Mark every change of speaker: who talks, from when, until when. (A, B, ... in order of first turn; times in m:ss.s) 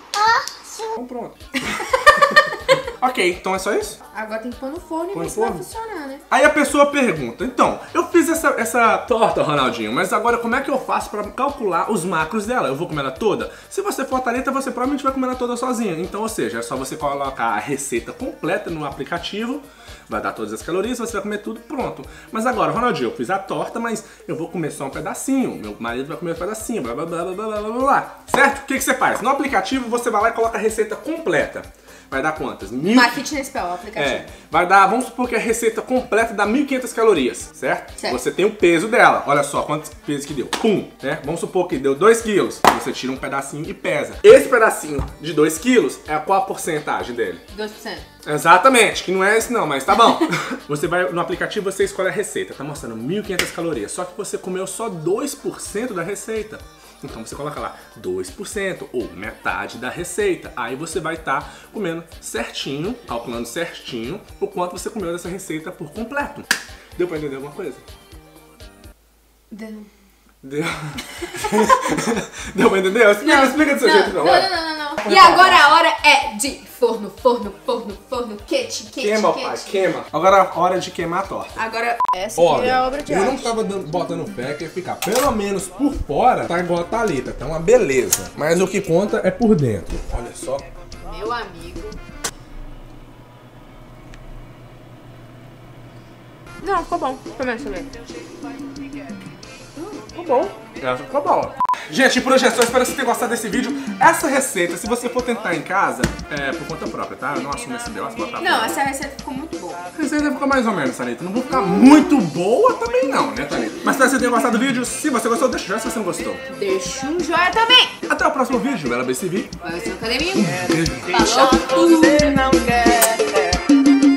0:00.3-0:00.9 A
0:01.0-0:01.8 B
0:01.9-0:02.6 A
0:02.4-0:04.0 B
0:04.1-0:06.2 A
0:05.1-0:05.6 B
0:06.3-0:33.3 B
0:32.9-0:34.3 A
0:34.0-0:47.4 B
0:47.5-0:48.1 A
0:48.2-1:06.5 B
1:07.0-1:07.8 B
1:09.5-1:09.9 A
1:10.4-1:15.7 B
1:11.3-1:11.7 A
1:13.2-1:19.8 A
1:19.0-1:21.6 B
1:21.6-1:23.5 A
1:22.4-1:30.6 B
1:31.0-1:32.0 A
1:36.6-1:37.9 A
1:40.0-1:48.8 B
1:48.4-1:49.8 A
1:49.9-1:56.4 B
1:51.5-1:52.1 A
1:56.5-1:57.9 A
1:58.1-1:59.5 B
1:59.6-2:02.4 A
2:00.3-2:01.1 B
2:00.7-2:03.6 C